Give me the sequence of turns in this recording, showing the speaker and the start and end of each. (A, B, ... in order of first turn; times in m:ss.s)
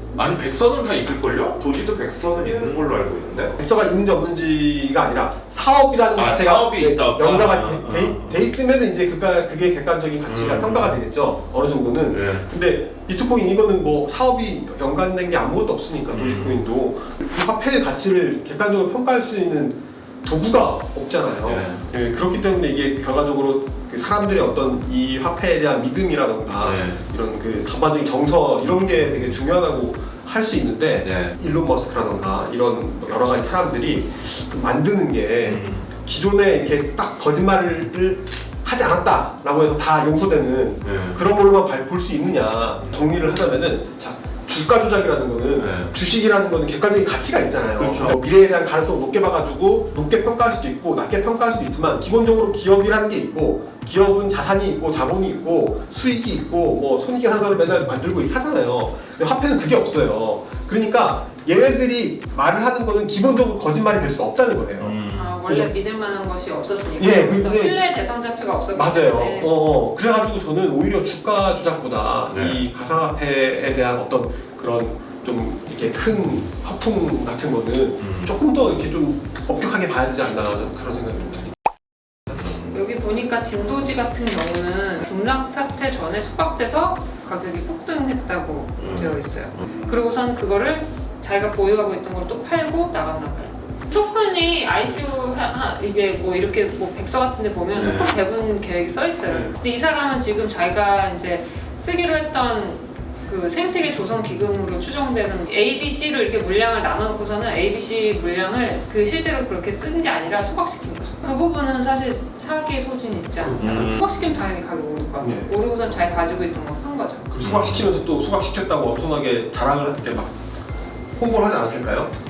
0:00.1-0:03.6 A
0:03.6-1:05.0 B
0:06.1-0:08.4 A
0:10.2-0:11.0 A
0:12.1-0:12.5 A
0:16.1-0:16.6 A
0:21.4-0:21.8 A
0:26.6-0:27.0 A
0:31.0-0:31.3 A
0:35.4-0:35.9 A
0:40.8-0:41.2 A
0:45.5-0:45.9 A
0:47.8-0:48.1 A
1:04.8-1:05.4 A
1:05.1-1:09.5 C
1:05.5-1:05.7 B
1:07.0-1:07.8 B
1:08.7-1:21.5 B
1:12.3-1:12.6 A
1:18.0-1:18.4 A
1:22.3-1:22.8 A
1:22.7-1:57.3 C
1:28.8-1:29.2 A
1:29.6-1:30.1 B
1:37.7-1:38.1 A
1:39.3-1:39.5 B
1:53.4-1:54.0 B
1:53.6-1:54.1 A
1:55.2-1:55.5 B
1:57.3-2:00.4 B
1:57.4-1:57.9 A
2:01.2-2:02.2 B